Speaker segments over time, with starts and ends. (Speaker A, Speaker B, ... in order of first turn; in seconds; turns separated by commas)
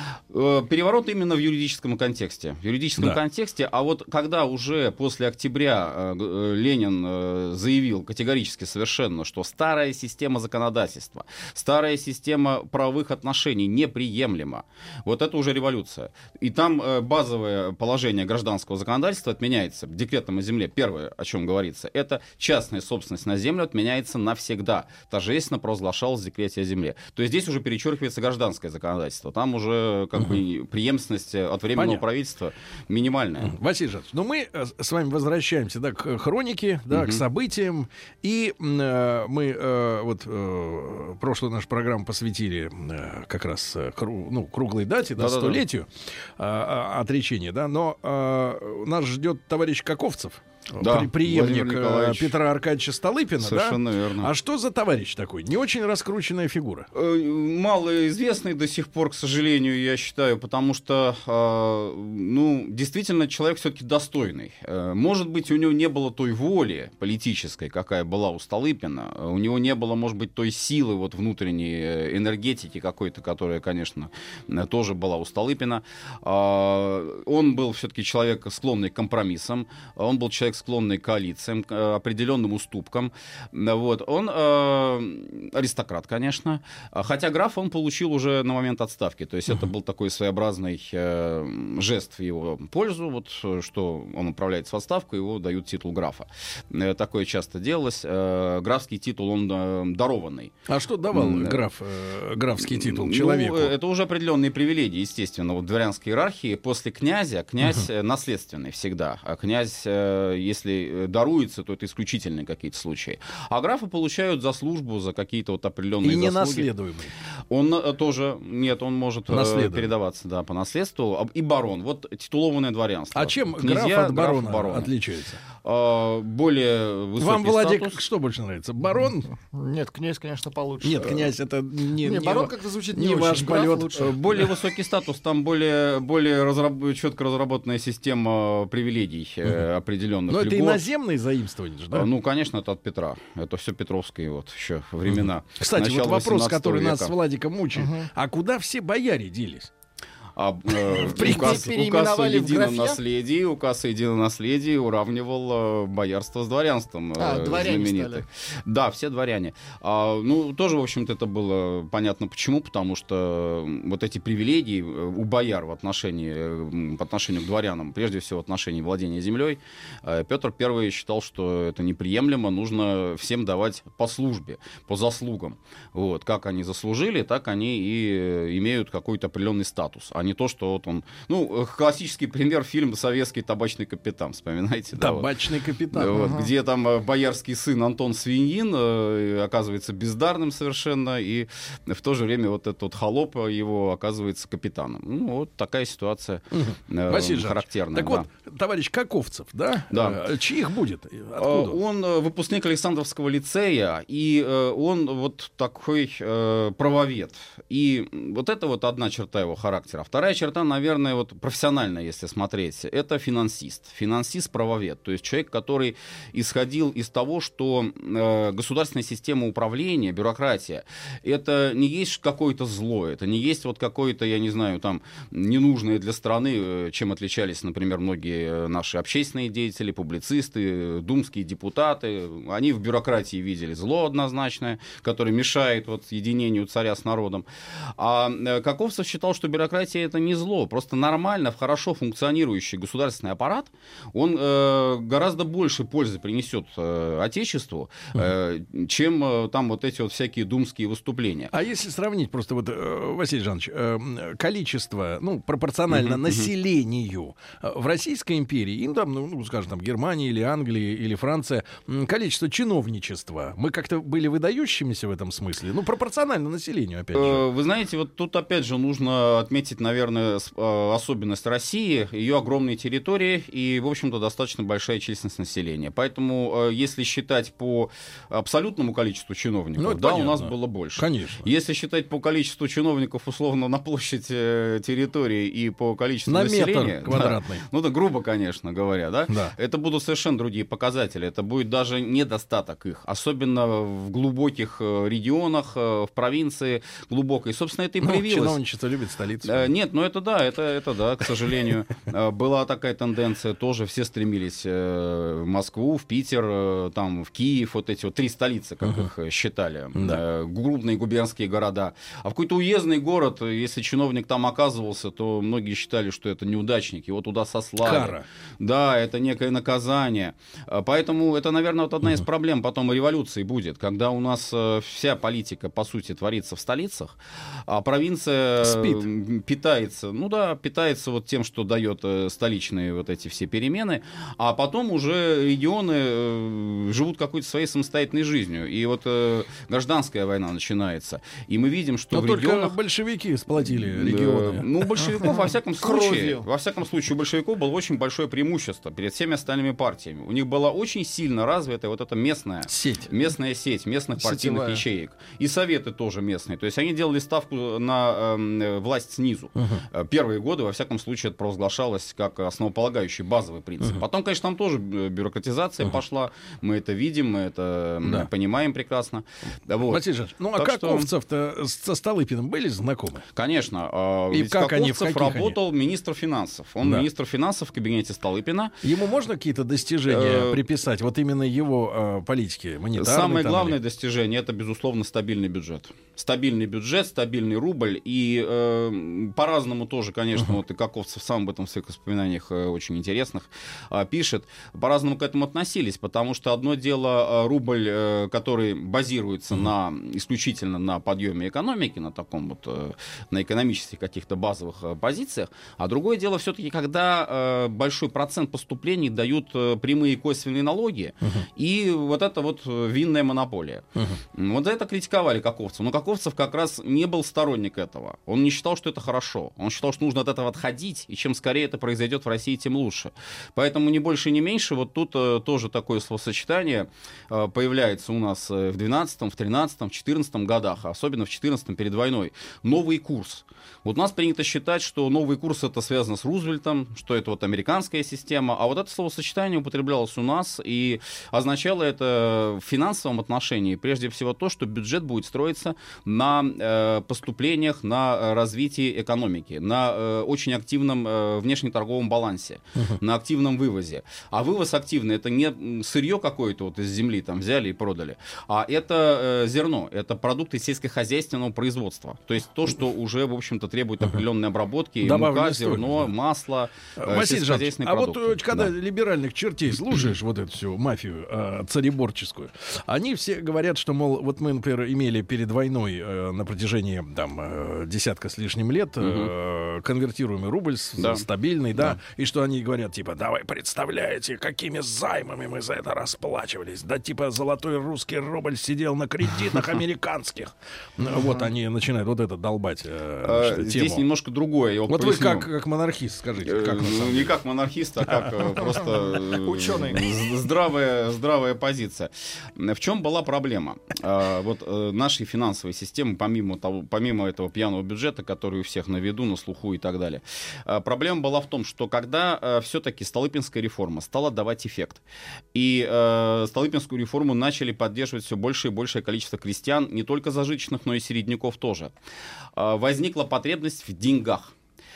Speaker A: 0.3-33.5, Speaker B: 31.8-32.0, Speaker B: 33.4-45.9, Speaker A: 36.9-37.2, Speaker A: 45.2-45.6, Speaker B: 46.4-56.9, Speaker A: 50.8-52.3, Speaker A: 53.4-54.3, Speaker A: 56.9-100.5, Speaker B: 100.7-103.7, Speaker A: 101.1-101.7, Speaker A: 102.6-116.7, Speaker B: 116.0-117.1, Speaker A: 117.5-124.9, Speaker B: 119.3-119.9, Speaker B: 123.1-125.4, Speaker A: 125.6-128.0, Speaker B: 127.2-129.3, Speaker C: 129.3-131.3, Speaker B: 130.8-134.1, Speaker C: 132.0-134.5, Speaker A: 133.9-140.9, Speaker B: 140.3-142.1, Speaker A: 141.9-147.1, Speaker B: 145.6-149.7, Speaker C: 147.8-148.1, Speaker A: 150.4-185.3, Speaker B: 150.9-151.7, Speaker C: 151.0-153.0, Speaker C: 157.2-158.2, Speaker B: 185.0-186.2, Speaker A: 185.9-198.3, Speaker B: 196.5-201.8, Speaker A: 199.9-200.2, Speaker A: 201.4-251.5, Speaker B: 251.5-267.4, Speaker A: 255.9-256.5, Speaker A: 267.1-298.6, Speaker B: 279.8-281.5, Speaker B: 286.3-287.6, Speaker B: 289.3-289.6, Speaker B: 298.0-299.7, Speaker A: 299.4-342.8, Speaker B: 310.0-310.2, Speaker B: 317.8-318.2, Speaker B: 328.6-329.1, Speaker B: 342.1-344.7, Speaker A: 343.6-371.1, Speaker C: 345.8-346.5, Speaker B: 352.7-353.1, Speaker C: 354.2-354.8, Speaker B: 359.6-359.8, Speaker B: 369.9-373.2, Speaker A: 373.3-378.8, Speaker B: 374.3-375.6, Speaker B: 378.8-383.8, Speaker A: 380.1-380.7, Speaker A: 382.9-468.7, Speaker B: 465.0-466.0, Speaker B: 467.0-494.1, Speaker A: 479.0-479.3, Speaker A: 481.0-481.3, Speaker A: 493.2-495.5, Speaker B: 494.9-497.4, Speaker A: 496.4-515.0, Speaker C: 499.2-500.1, Speaker A: 515.5-521.9, Speaker A: 522.5-524.5